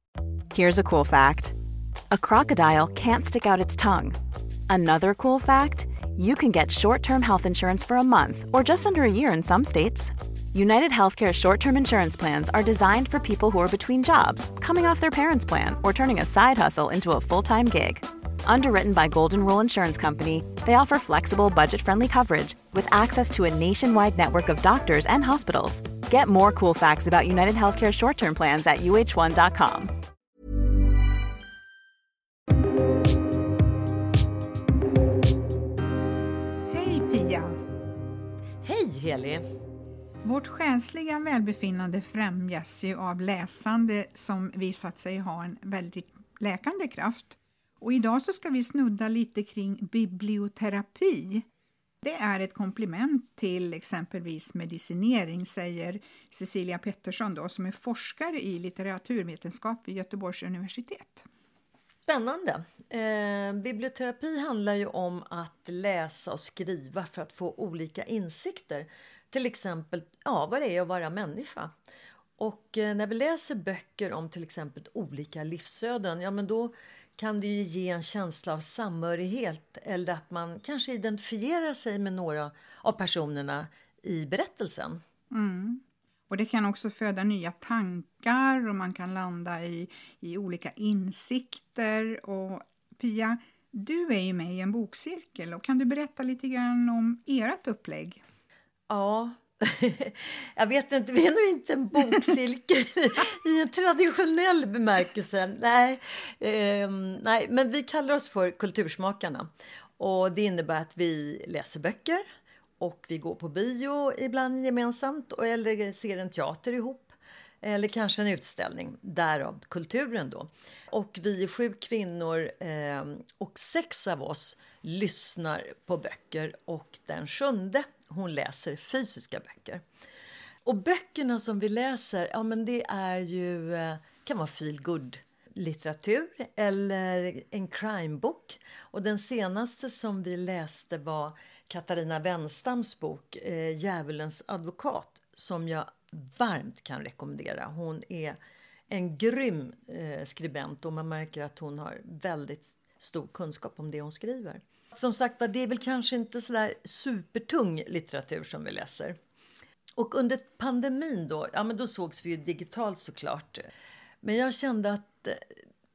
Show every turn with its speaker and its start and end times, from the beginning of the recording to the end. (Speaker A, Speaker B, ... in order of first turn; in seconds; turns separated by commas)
Speaker A: 0.5-1.5, Speaker A: 2.1-4.2, Speaker A: 4.7-29.9, Speaker B: 36.7-37.5, Speaker C: 38.6-39.4, Speaker B: 40.2-51.4, Speaker B: 52.0-61.2, Speaker C: 62.1-71.7, Speaker C: 72.4-85.0, Speaker B: 85.3-98.2, Speaker C: 98.9-112.2, Speaker C: 112.8-129.8, Speaker C: 130.6-148.3, Speaker C: 148.9-159.2, Speaker C: 160.0-163.6, Speaker C: 164.2-165.4